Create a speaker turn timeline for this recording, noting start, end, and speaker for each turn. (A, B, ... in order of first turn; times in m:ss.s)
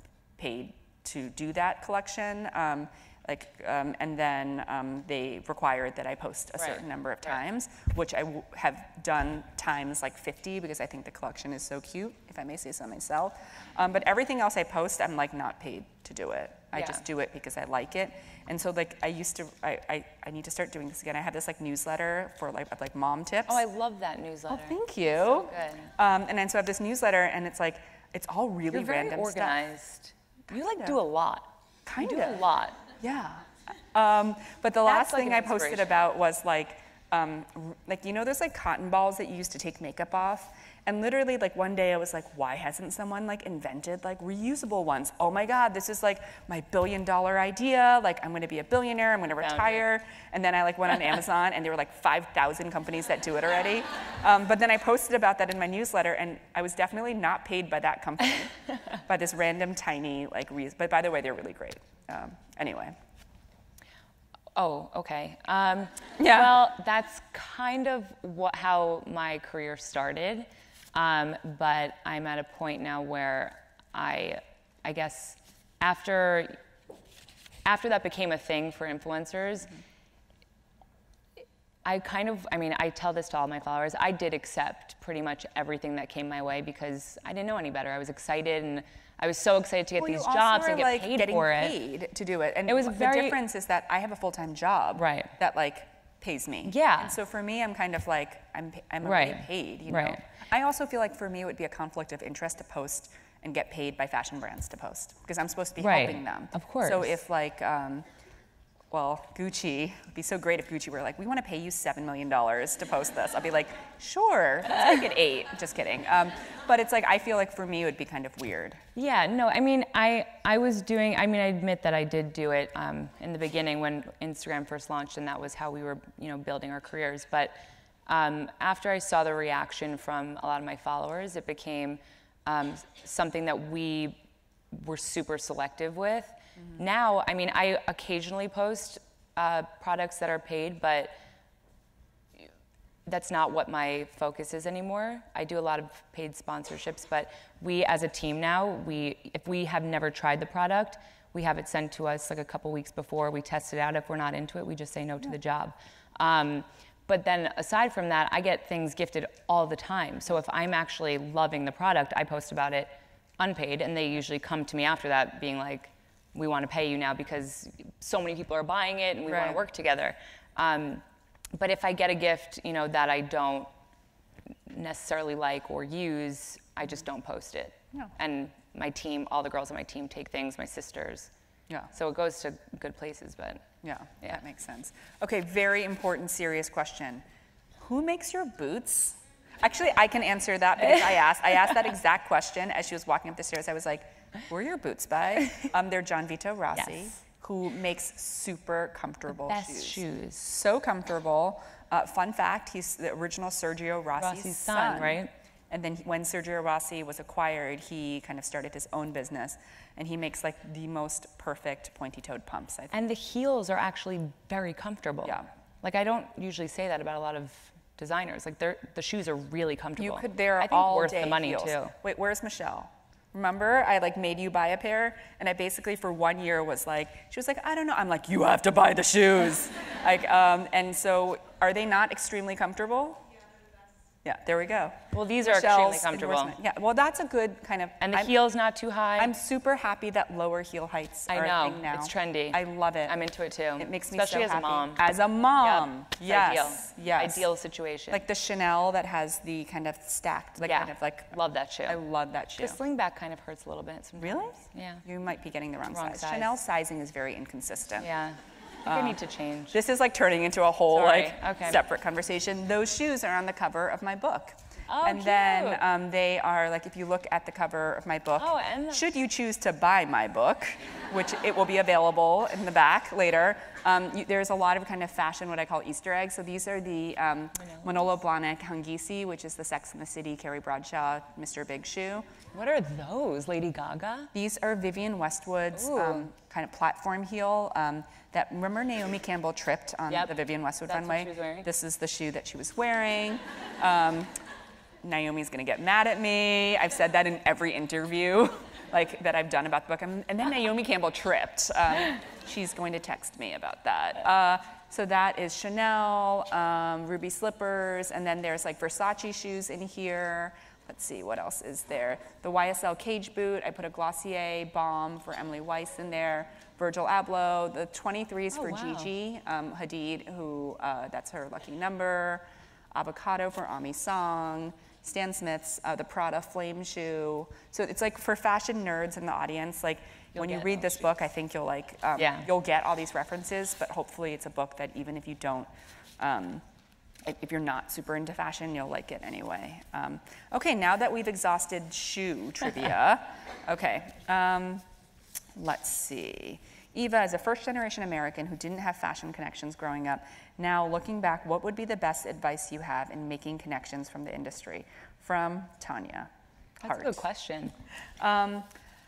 0:00.4-0:23.6 A
0:16.8-0:17.0 B
0:23.5-0:25.9 B
0:24.5-0:29.6 A
0:28.7-0:32.8 B
0:30.6-0:31.0 A
0:31.9-0:32.4 A
0:33.0-1:03.0 A
0:34.8-0:35.9 B
0:49.4-0:49.9 B
1:04.6-1:16.6 B
1:06.2-1:06.6 A
1:17.6-1:19.7 B
1:21.8-1:31.8 B
1:30.0-1:48.1 A
1:32.7-1:33.4 B
1:35.0-1:35.3 B
1:36.6-1:37.2 B
1:39.0-1:40.2 B
1:45.8-1:47.2 B
1:48.9-1:58.8 A
1:59.0-2:07.5 B
2:08.1-2:14.2 B
2:14.7-2:21.1 B
2:23.1-2:51.0 B
2:49.3-2:49.6 A
2:51.6-2:53.7 B
2:54.7-3:01.3 B
3:01.9-3:03.7 B
3:03.8-3:07.2 A
3:07.8-3:33.0 A
3:10.8-3:11.2 B
3:16.8-3:17.1 B
3:19.3-3:20.5 B
3:24.2-3:25.3 B
3:32.9-3:41.9 B
3:40.0-3:53.2 A
3:54.2-3:58.3 A
3:55.1-3:56.6 B
3:58.0-3:59.3 B
3:59.2-4:03.2 A
4:01.3-4:08.2 B
4:03.8-4:07.5 A
4:08.1-4:12.8 A
4:10.6-4:12.0 B
4:12.6-4:15.0 B
4:14.2-4:18.1 A
4:15.9-4:16.5 B
4:18.0-4:19.8 B
4:18.9-4:19.2 A
4:19.7-4:42.3 A
4:20.9-4:21.8 B
4:24.9-4:25.8 B
4:28.4-4:29.1 B
4:42.5-4:44.3 B
4:44.3-4:54.3 A
4:45.7-4:46.3 B
4:50.1-4:50.3 B
4:50.9-4:51.7 B
4:55.0-5:35.7 A
5:18.5-5:19.1 B
5:30.4-5:31.0 B
5:32.2-5:32.5 B
5:36.2-5:36.6 A
5:37.2-5:44.8 A
5:45.6-5:56.3 A
5:56.8-5:57.8 B
5:56.8-5:57.2 A
5:58.2-5:58.7 A